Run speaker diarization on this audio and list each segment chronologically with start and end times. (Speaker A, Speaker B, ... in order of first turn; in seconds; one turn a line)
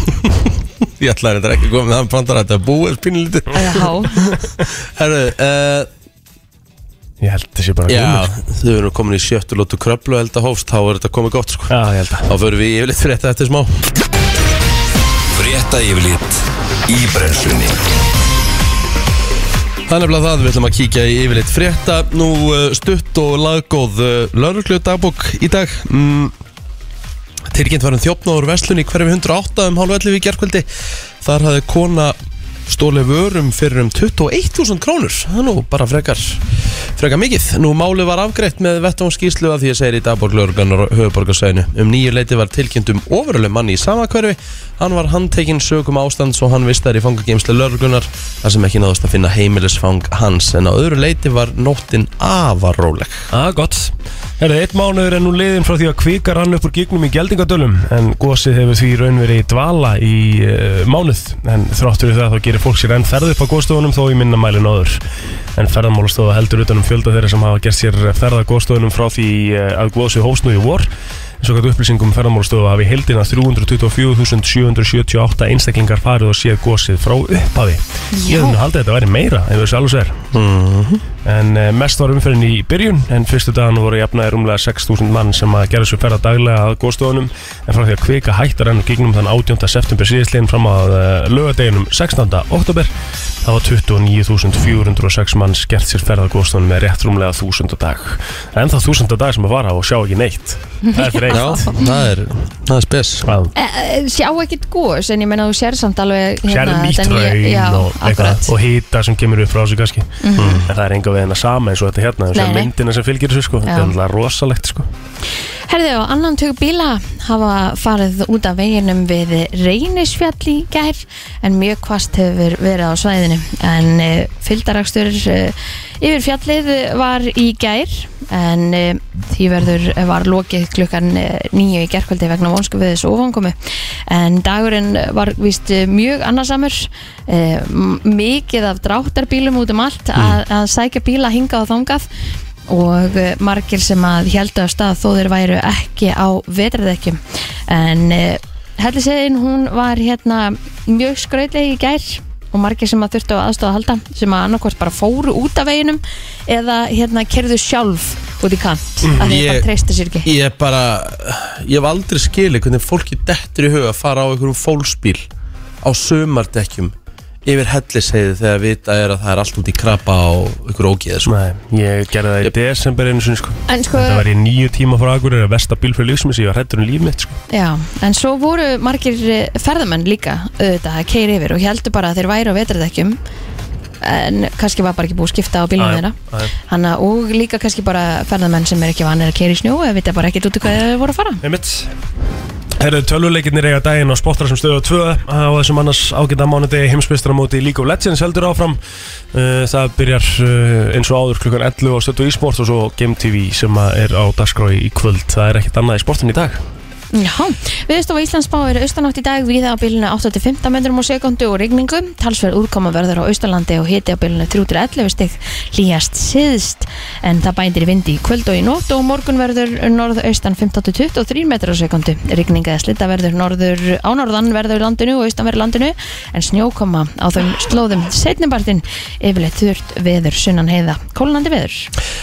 Speaker A: 0.8-5.9
Speaker B: 3.5-4.2
Speaker C: 7.2-8.3
Speaker A: 7.9-11.7
Speaker C: 11.7-12.3
Speaker A: 12.2-13.8
Speaker D: 15.3-17.8
Speaker A: 19.9-26.3
Speaker A: 27.5-30.7
Speaker A: 31.2-32.1
Speaker A: 32.7-53.2
Speaker C: 53.3-65.0
Speaker C: 65.5-70.9
Speaker C: 71.4-80.2
Speaker B: 78.1-78.5
Speaker A: 80.3-81.0
Speaker C: 81.2-92.9
Speaker C: 93.4-101.6
Speaker B: 100.8-101.9
Speaker A: 101.3-103.3
Speaker C: 103.2-103.5
Speaker B: 103.5-108.5
Speaker C: 106.5-114.9
Speaker B: 110.2-110.6
Speaker B: 112.3-112.7
Speaker B: 113.6-113.9
Speaker B: 115.7-133.5
Speaker B: 134.1-142.1
Speaker B: 142.7-160.3
Speaker A: 159.1-159.7
Speaker A: 160.2-165.2
Speaker A: 165.8-171.3
Speaker C: 171.2-177.4
Speaker B: 173.7-174.2
Speaker B: 177.5-183.2
Speaker B: 184.0-186.1
Speaker C: 185.8-186.5
Speaker B: 186.7-191.4
Speaker C: 191.4-191.9
Speaker C: 192.8-198.8
Speaker C: 199.3-206.6
Speaker B: 207.1-231.9